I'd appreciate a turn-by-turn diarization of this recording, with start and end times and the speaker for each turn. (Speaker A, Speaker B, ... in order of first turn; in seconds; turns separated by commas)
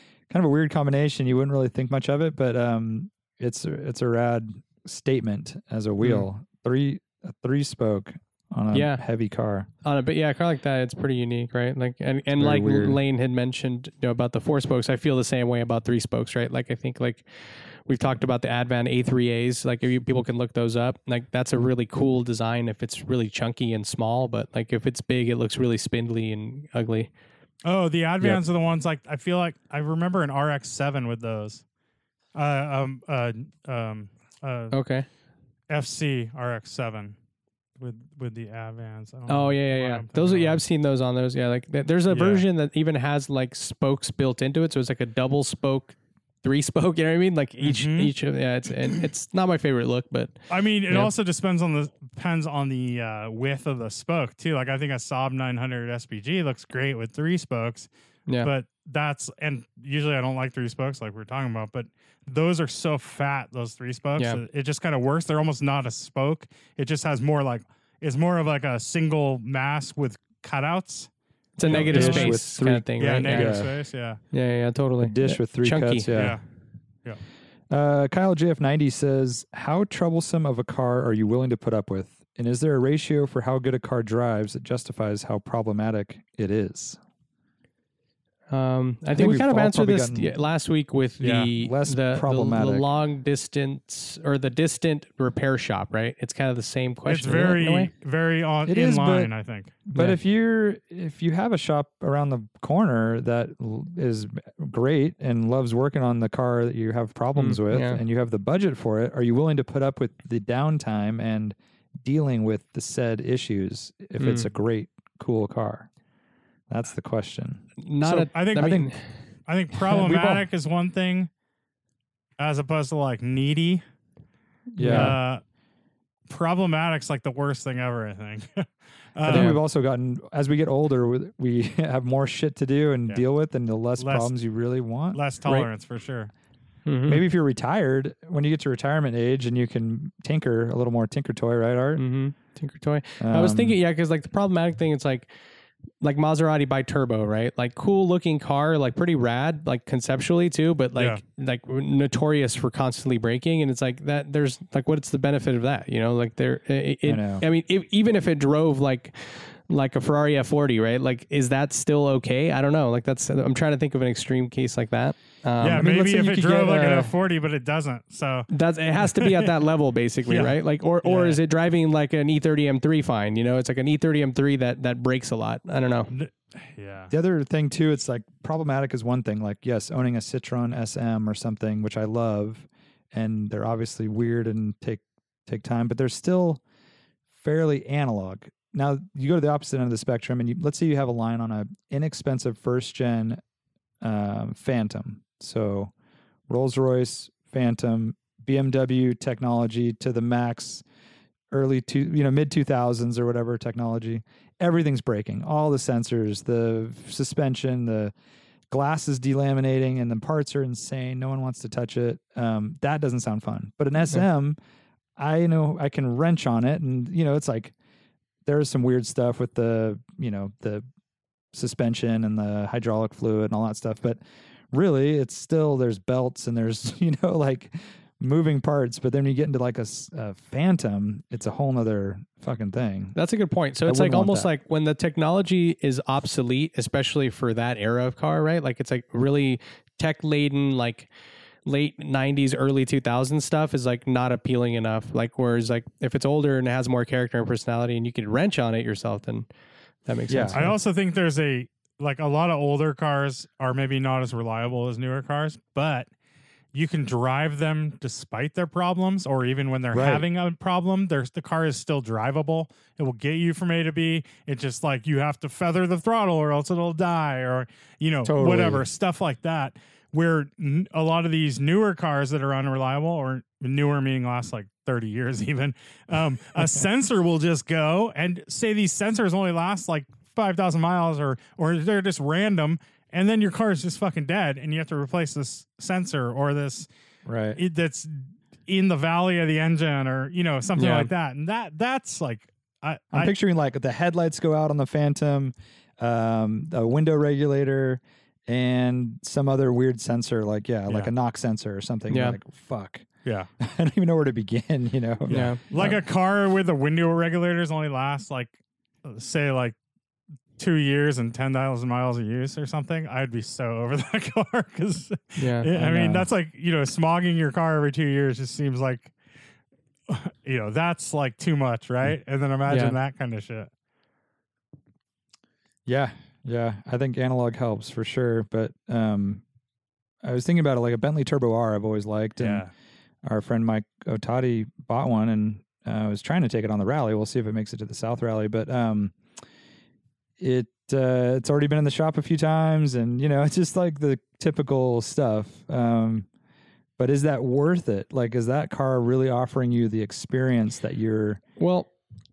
Speaker A: 0.3-9.7, Speaker B: 6.0-6.3, Speaker B: 8.7-9.0, Speaker B: 9.8-27.1, Speaker A: 12.4-13.0, Speaker C: 27.6-31.6, Speaker C: 32.4-34.8, Speaker B: 34.7-35.1, Speaker C: 35.7-37.2, Speaker C: 37.8-40.6, Speaker B: 39.3-51.1, Speaker C: 42.1-42.5, Speaker C: 47.6-48.1, Speaker C: 50.5-57.9, Speaker C: 58.4-71.1, Speaker B: 71.6-73.7, Speaker C: 71.6-72.4, Speaker A: 71.7-73.7, Speaker C: 73.0-74.2, Speaker B: 74.3-76.2, Speaker A: 75.0-76.4, Speaker C: 76.1-76.4, Speaker A: 77.7-87.0, Speaker B: 88.5-97.9, Speaker A: 89.1-90.3, Speaker C: 91.2-91.5, Speaker A: 91.5-92.9, Speaker C: 97.1-99.8, Speaker A: 98.7-99.3, Speaker A: 99.9-115.9, Speaker B: 107.4-108.0, Speaker B: 114.2-114.5, Speaker A: 116.7-117.7, Speaker B: 117.8-119.2, Speaker C: 118.1-121.3, Speaker A: 120.0-120.4, Speaker C: 122.4-123.8, Speaker B: 124.7-125.2, Speaker A: 124.8-125.2, Speaker C: 124.9-125.4, Speaker C: 126.3-129.6, Speaker A: 129.3-135.2, Speaker B: 129.3-129.6, Speaker C: 134.0-134.3, Speaker C: 135.1-136.3, Speaker B: 136.9-137.2, Speaker A: 137.1-142.0, Speaker B: 142.0-145.3, Speaker A: 143.2-143.8, Speaker B: 146.0-165.9, Speaker A: 157.1-157.4, Speaker C: 165.6-169.6, Speaker A: 165.8-167.1, Speaker B: 168.5-176.1, Speaker C: 170.3-171.4, Speaker C: 176.1-177.1, Speaker A: 177.1-186.6, Speaker A: 187.3-193.4, Speaker A: 194.0-195.9, Speaker A: 196.5-200.8, Speaker A: 201.5-208.1, Speaker A: 208.7-214.6, Speaker A: 215.2-217.7, Speaker A: 218.4-220.8, Speaker A: 221.5-224.2, Speaker A: 224.7-233.2, Speaker B: 233.2-241.1, Speaker A: 233.8-234.5, Speaker B: 241.7-249.5, Speaker B: 250.1-250.8, Speaker A: 250.3-250.6, Speaker C: 250.6-256.1, Speaker C: 256.7-286.9, Speaker A: 259.9-260.2, Speaker A: 268.2-268.9, Speaker A: 276.6-276.9, Speaker A: 287.3-287.6, Speaker C: 287.6-293.3, Speaker B: 290.8-291.1, Speaker A: 293.1-303.1, Speaker B: 302.1-302.4, Speaker A: 303.6-306.0, Speaker C: 305.3-309.8, Speaker B: 305.3-305.6, Speaker C: 310.6-319.1, Speaker B: 315.4-315.7, Speaker A: 315.7-316.3, Speaker C: 320.1-323.7, Speaker B: 322.7-323.0, Speaker A: 325.9-329.4, Speaker A: 330.2-332.7, Speaker C: 332.4-332.7, Speaker A: 333.2-339.2, Speaker A: 340.4-346.3, Speaker A: 347.0-351.4, Speaker B: 351.6-351.9